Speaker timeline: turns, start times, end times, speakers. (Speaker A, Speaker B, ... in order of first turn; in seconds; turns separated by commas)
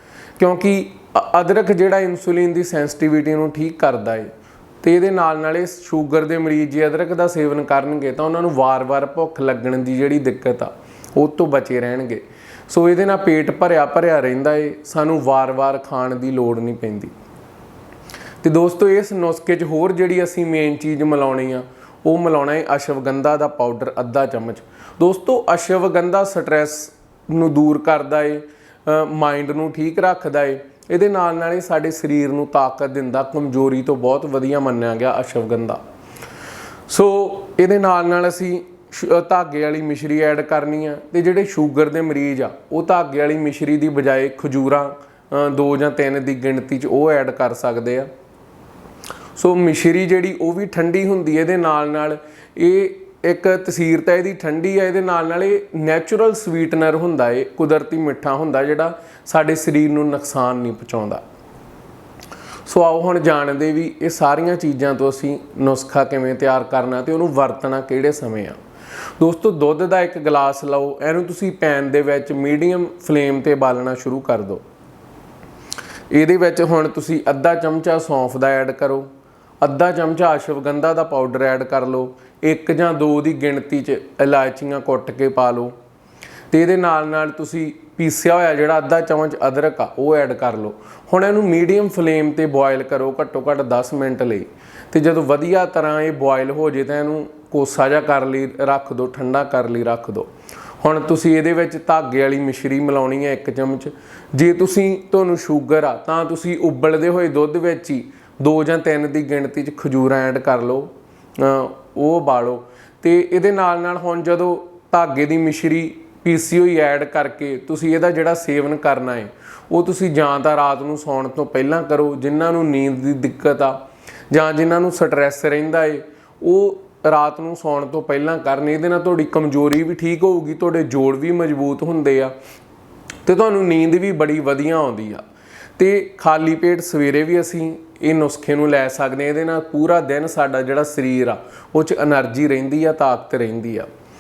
Speaker A: 0.4-4.3, Speaker A: 4.8-17.1, Speaker A: 18.4-35.8, Speaker A: 36.9-48.1, Speaker A: 49.4-61.2, Speaker A: 62.7-68.6, Speaker A: 69.2-74.6, Speaker A: 76.1-79.1, Speaker A: 79.6-85.8, Speaker A: 86.5-100.3, Speaker A: 100.8-123.8, Speaker A: 124.3-132.3, Speaker A: 133.2-135.2, Speaker A: 135.8-143.9